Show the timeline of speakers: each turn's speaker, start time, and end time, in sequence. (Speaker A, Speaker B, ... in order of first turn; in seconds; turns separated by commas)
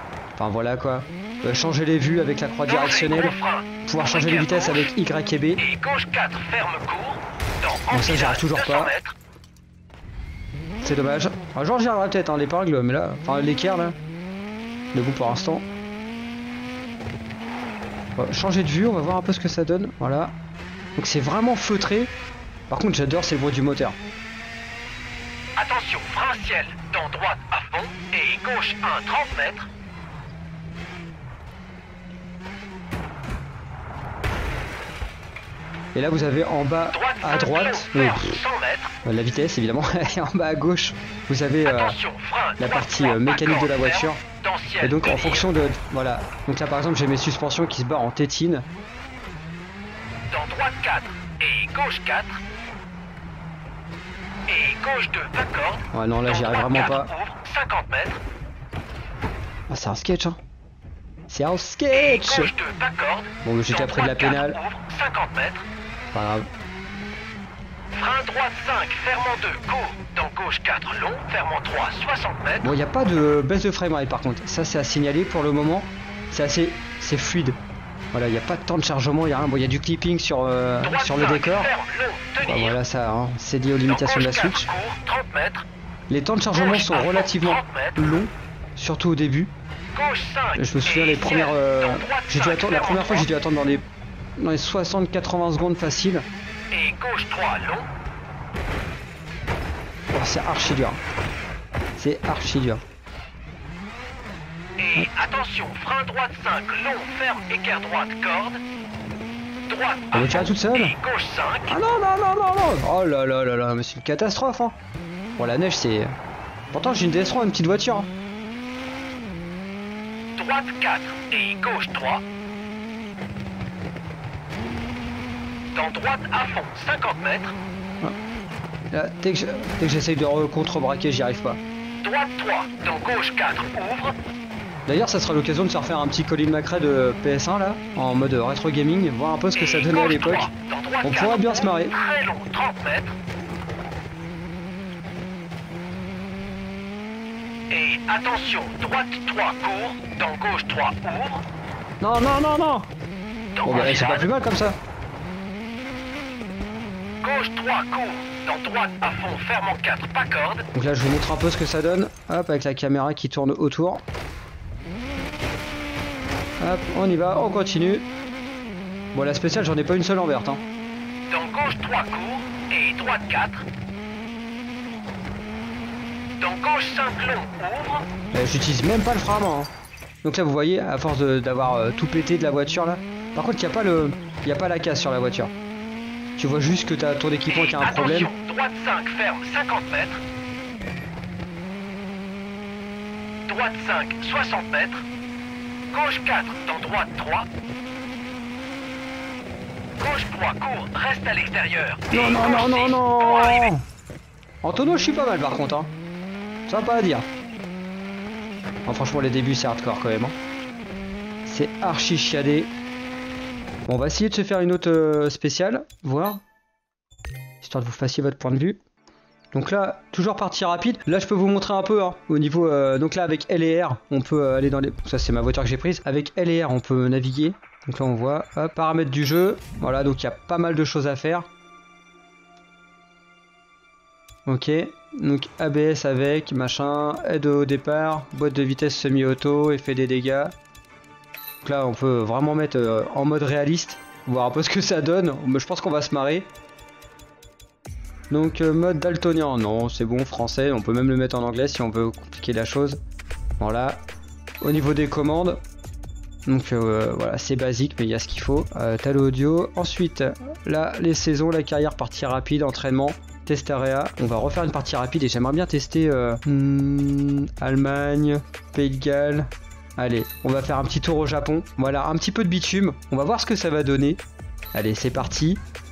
Speaker A: 0.4-5.6, Speaker B: 2.7-4.9, Speaker B: 5.6-9.1, Speaker A: 7.9-8.9, Speaker A: 10.8-13.9, Speaker A: 14.9-15.7, Speaker A: 18.2-20.3, Speaker A: 21.0-22.1, Speaker A: 22.7-24.0, Speaker B: 25.6-29.7, Speaker A: 35.9-38.4, Speaker B: 36.9-38.9, Speaker A: 39.0-42.0, Speaker B: 41.6-45.5, Speaker A: 42.6-44.2, Speaker A: 44.8-48.6, Speaker B: 50.3-52.4, Speaker B: 54.5-58.2, Speaker A: 55.9-57.1, Speaker A: 59.7-60.4, Speaker A: 61.3-62.5, Speaker B: 61.9-65.7, Speaker A: 63.4-64.6, Speaker A: 66.1-66.5, Speaker B: 67.9-72.7, Speaker A: 72.6-77.6, Speaker A: 78.1-81.7, Speaker B: 80.8-82.8, Speaker A: 82.4-84.7, Speaker B: 83.8-85.7, Speaker A: 86.1-89.5, Speaker B: 86.5-88.0, Speaker B: 89.9-93.2, Speaker A: 90.5-93.8, Speaker A: 94.4-96.2, Speaker B: 96.7-97.9, Speaker A: 100.1-101.0, Speaker A: 102.0-102.8, Speaker B: 104.8-108.6, Speaker B: 109.7-111.7, Speaker A: 110.1-111.0, Speaker A: 111.7-114.8, Speaker A: 115.4-116.1, Speaker A: 116.7-118.1, Speaker B: 120.3-122.2, Speaker B: 125.7-127.5, Speaker A: 128.9-131.6, Speaker B: 132.0-134.1, Speaker A: 134.9-140.5, Speaker B: 139.5-143.1, Speaker A: 141.0-141.9, Speaker B: 147.7-151.4, Speaker A: 152.0-152.9, Speaker B: 153.5-154.2, Speaker A: 153.6-154.8, Speaker B: 157.2-160.6, Speaker A: 160.7-164.0, Speaker A: 166.6-168.1, Speaker A: 169.1-170.6, Speaker B: 171.3-173.6, Speaker B: 176.4-178.1, Speaker A: 178.3-179.7, Speaker A: 180.2-185.5, Speaker A: 186.4-188.3, Speaker B: 187.5-190.2, Speaker B: 193.5-195.0, Speaker B: 195.9-197.4, Speaker B: 200.0-203.7, Speaker A: 202.1-203.8, Speaker A: 204.6-205.9, Speaker A: 206.7-207.2, Speaker A: 208.8-210.3, Speaker A: 211.4-212.7, Speaker A: 213.9-216.4, Speaker A: 217.6-218.8, Speaker A: 219.5-231.5, Speaker A: 234.4-240.5, Speaker A: 241.6-246.5, Speaker A: 248.3-253.0, Speaker A: 253.6-254.0, Speaker A: 254.6-255.6, Speaker A: 256.4-274.2, Speaker A: 274.7-275.6